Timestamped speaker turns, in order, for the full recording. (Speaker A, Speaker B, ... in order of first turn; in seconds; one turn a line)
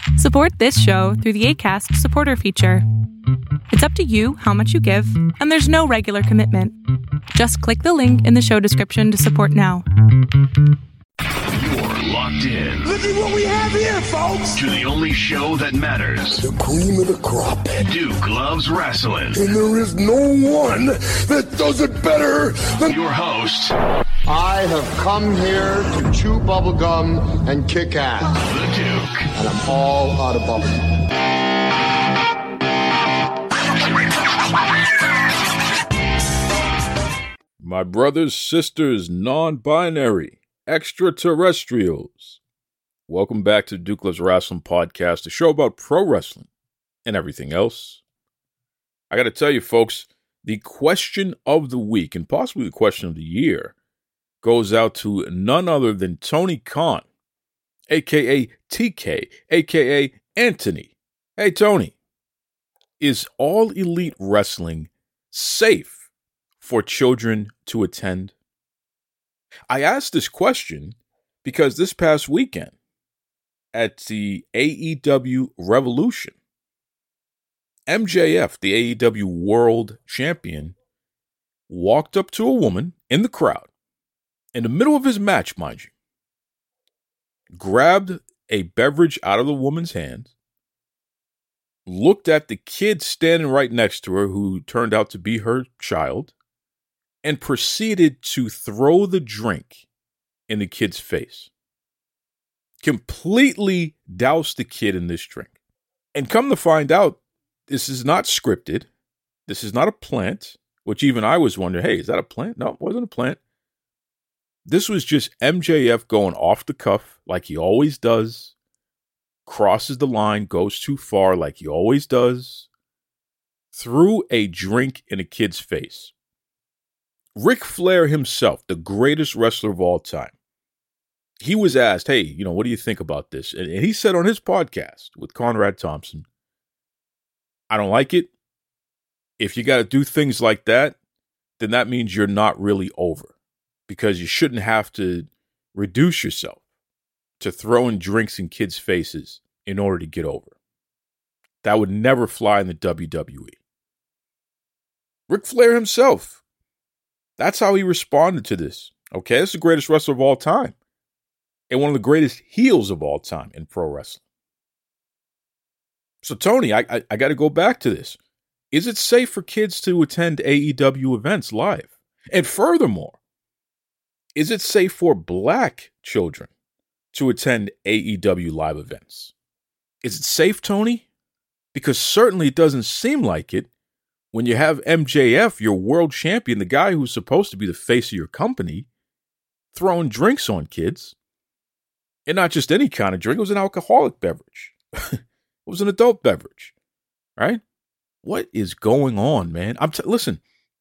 Speaker A: 0.1-2.8
Speaker A: 3.7-6.7
Speaker A: 7.3-9.8
Speaker B: 11.5-12.9
Speaker C: 12.8-14.6
Speaker B: 14.5-16.4
Speaker C: 16.4-17.8
Speaker B: 17.8-19.4
Speaker C: 19.3-23.0
Speaker B: 22.9-23.7
Speaker D: 24.2-28.4
Speaker B: 28.5-29.3
Speaker D: 29.4-30.9
Speaker E: 37.6-42.4
Speaker E: 43.1-46.5
Speaker E: 47.0-48.0
Speaker E: 49.1-53.7
Speaker E: 54.4-57.0
Speaker E: 57.9-61.9
Speaker E: 63.0-66.0
Speaker E: 66.6-68.3
Speaker E: 69.7-72.7
Speaker E: 73.7-76.3
Speaker E: 77.9-80.7
Speaker E: 81.7-83.7
Speaker E: 84.5-85.9
Speaker E: 87.5-90.3
Speaker E: 91.8-96.3
Speaker E: 97.2-99.8
Speaker E: 100.5-101.5
Speaker E: 102.8-105.5
Speaker E: 106.1-108.9
Speaker E: 109.5-113.4
Speaker E: 114.7-118.5
Speaker E: 119.5-122.7
Speaker E: 123.7-126.1
Speaker E: 127.3-130.3
Speaker E: 131.4-136.2
Speaker E: 137.7-138.3
Speaker E: 139.4-140.9
Speaker E: 141.6-143.3
Speaker E: 143.9-146.6
Speaker E: 147.4-150.5
Speaker E: 151.6-153.6
Speaker E: 155.3-156.4
Speaker E: 157.4-160.7
Speaker E: 161.7-164.2
Speaker E: 166.2-168.2
Speaker E: 168.7-173.2
Speaker E: 174.3-176.5
Speaker E: 177.1-179.3
Speaker E: 180.0-181.1
Speaker E: 181.7-183.7
Speaker E: 184.3-188.9
Speaker E: 189.7-191.1
Speaker E: 192.2-196.7
Speaker E: 198.2-200.4